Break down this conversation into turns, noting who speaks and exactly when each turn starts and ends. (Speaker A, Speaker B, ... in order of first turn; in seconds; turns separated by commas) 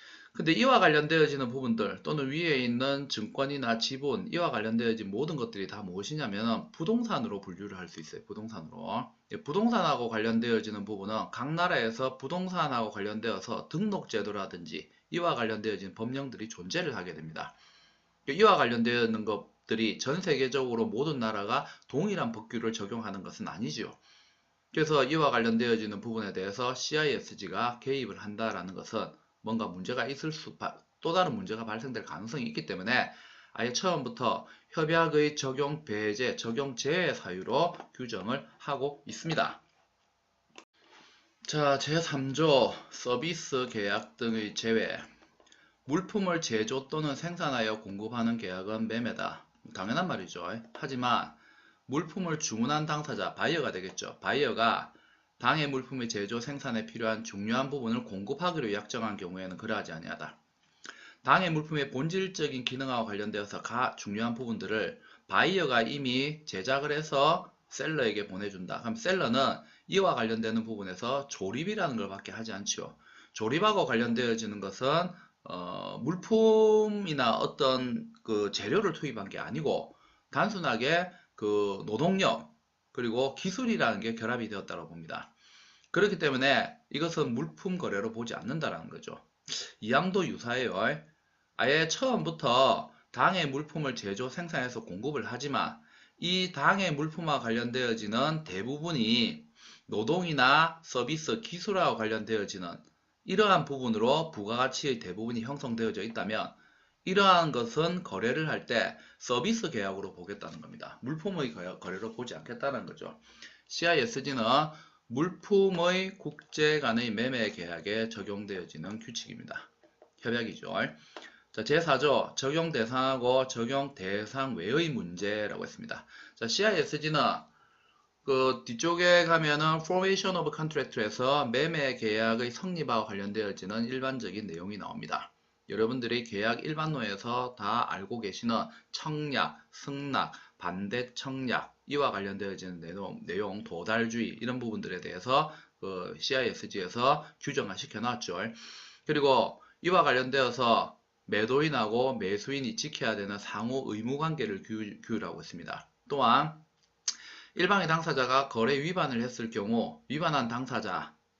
Speaker A: 0.3-17.5, Speaker A: 18.2-24.0, Speaker A: 24.7-39.6, Speaker A: 41.4-45.1, Speaker A: 45.9-51.4, Speaker A: 51.9-60.4, Speaker A: 61.2-85.3, Speaker A: 85.9-91.0, Speaker A: 91.6-119.7, Speaker A: 120.2-121.0, Speaker A: 121.5-127.5, Speaker A: 128.2-156.6, Speaker A: 157.5-161.1